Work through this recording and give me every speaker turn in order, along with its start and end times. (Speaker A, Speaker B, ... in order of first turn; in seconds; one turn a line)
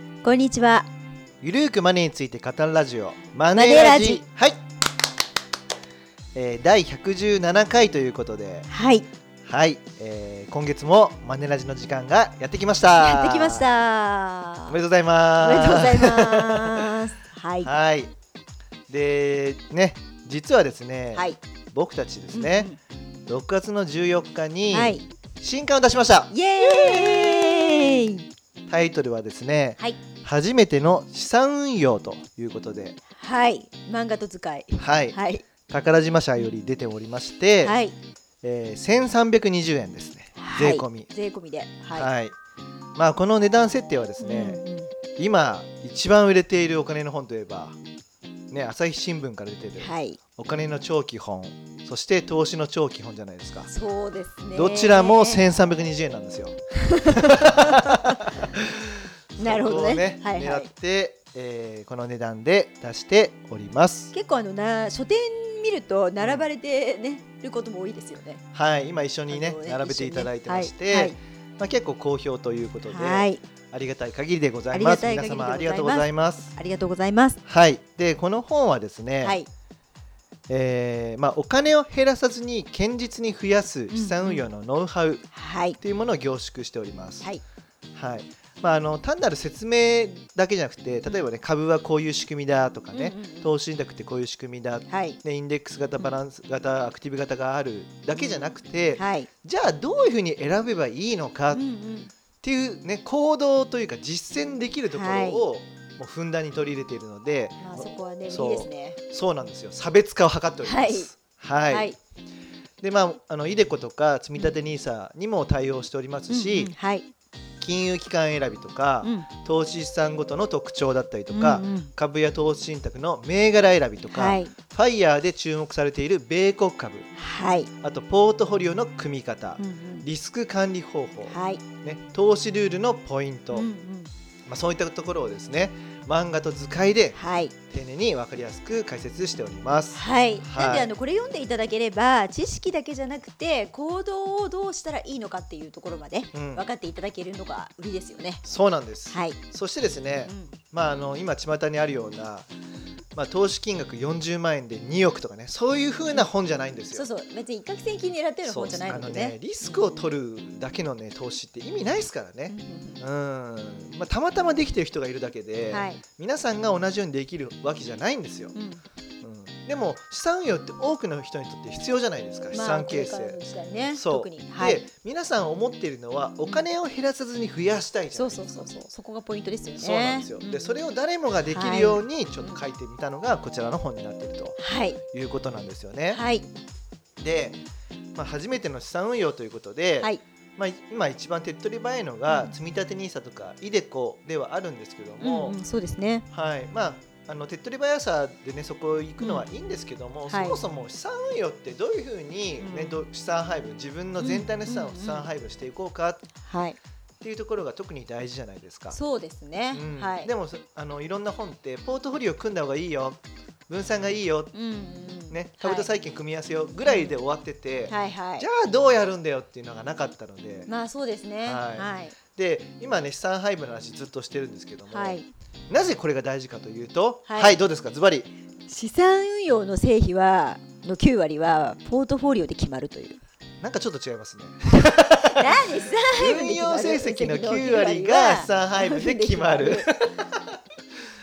Speaker A: 0.2-0.9
Speaker B: 1.4-4.6
Speaker A: 3.5-4.2
Speaker B: 6.3-8.7
Speaker A: 8.7-9.1
Speaker B: 9.4-13.7
Speaker A: 12.9-14.8
Speaker B: 14.7-16.9
Speaker A: 15.4-17.7
Speaker B: 17.6-18.1
Speaker B: 18.9-22.7
Speaker A: 21.1-21.4
Speaker A: 22.3-22.8
Speaker B: 23.3-28.0
Speaker A: 24.7-25.1
Speaker A: 26.3-28.3
Speaker B: 28.7-33.0
Speaker A: 33.1-35.5
Speaker B: 34.8-35.2
Speaker B: 35.7-37.8
Speaker A: 37.6-37.9
Speaker B: 38.4-41.1
Speaker A: 40.4-42.1
Speaker B: 41.9-42.3
Speaker B: 42.9-44.6
Speaker A: 44.2-44.9
Speaker B: 45.1-47.8
Speaker B: 48.5-53.7
Speaker A: 49.8-50.2
Speaker A: 53.7-55.4
Speaker B: 54.5-56.5
Speaker A: 56.8-58.5
Speaker B: 57.1-64.1
Speaker A: 59.4-60.7
Speaker A: 64.1-68.4
Speaker B: 66.2-66.5
Speaker B: 68.5-76.5
Speaker A: 69.3-71.2
Speaker A: 72.9-73.4
Speaker A: 74.7-77.4
Speaker B: 77.4-79.4
Speaker A: 79.2-79.5
Speaker B: 80.5-85.2
Speaker A: 83.9-84.5
Speaker A: 85.3-85.8
Speaker B: 85.8-87.3
Speaker B: 87.9-101.6
Speaker A: 92.9-93.5
Speaker A: 94.9-95.2
Speaker A: 98.1-99.3
Speaker A: 101.5-102.1
Speaker B: 102.4-111.9
Speaker A: 104.9-105.4
Speaker A: 107.6-109.0
Speaker A: 110.6-111.1
Speaker A: 111.7-112.0
Speaker B: 112.8-116.7
Speaker A: 116.3-117.1
Speaker B: 117.6-127.1
Speaker A: 119.0-119.3
Speaker A: 121.3-121.9
Speaker A: 124.1-124.5
Speaker A: 127.1-127.7
Speaker B: 127.8-133.7
Speaker A: 129.6-130.1
Speaker A: 131.3-131.6
Speaker A: 133.5-134.1
Speaker B: 134.4-137.2
Speaker A: 137.1-137.6
Speaker B: 137.7-140.9
Speaker A: 139.9-148.4
Speaker B: 146.3-146.7
Speaker B: 148.4-152.5
Speaker A: 149.1-149.4
Speaker A: 150.3-150.6
Speaker B: 153.1-157.1
Speaker A: 156.9-160.1
Speaker B: 158.4-168.5
Speaker A: 162.5-163.0
Speaker A: 165.7-166.0
Speaker A: 168.5-168.8
Speaker B: 169.2-178.6
Speaker A: 172.5-174.8
Speaker A: 178.1-180.8
Speaker B: 179.8-184.6
Speaker A: 181.4-182.6
Speaker A: 184.6-185.0
Speaker B: 185.1-186.2
Speaker A: 186.1-186.5
Speaker B: 187.2-187.6
Speaker B: 188.1-195.6
Speaker A: 195.2-196.2
Speaker B: 196.3-206.3
Speaker A: 199.2-199.5
Speaker A: 200.3-200.6
Speaker A: 202.6-203.1
Speaker A: 204.2-205.3
Speaker A: 206.4-206.8
Speaker B: 207.2-209.0
Speaker A: 208.9-210.3
Speaker B: 209.7-214.5
Speaker A: 214.5-215.9
Speaker B: 215.3-220.7
Speaker A: 216.9-217.2
Speaker A: 217.9-218.5
Speaker A: 220.7-222.2
Speaker B: 221.4-228.3
Speaker A: 224.9-225.3
Speaker A: 227.3-227.6
Speaker A: 228.7-233.2
Speaker B: 233.6-240.6
Speaker A: 234.8-239.9